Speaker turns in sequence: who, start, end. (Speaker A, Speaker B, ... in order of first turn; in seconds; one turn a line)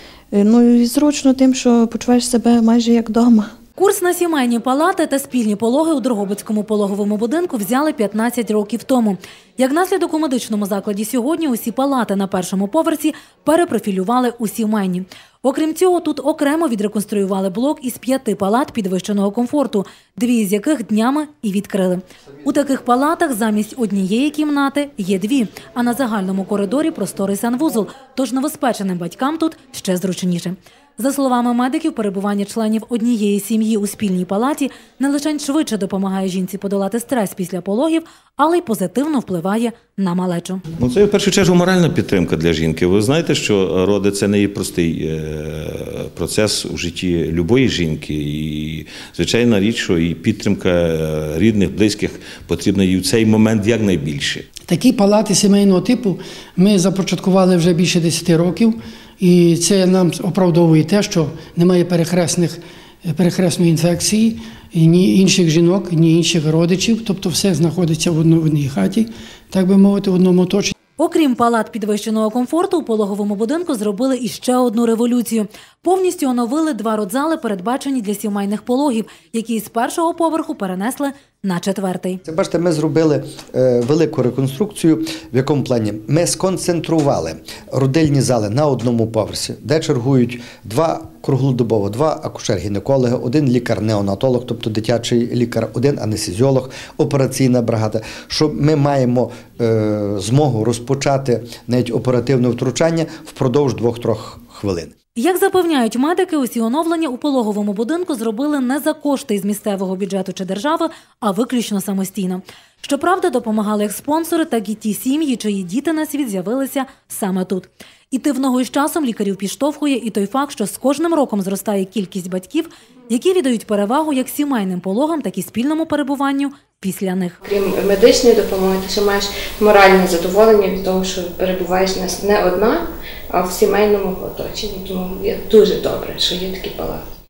Speaker A: 0.3-3.5
Speaker B: 3.8-40.6
Speaker C: 40.8-54.5
Speaker D: 54.7-70.7
Speaker B: 71.0-82.2
Speaker E: 82.2-104.9
Speaker B: 105.2-127.4
Speaker F: 127.5-137.0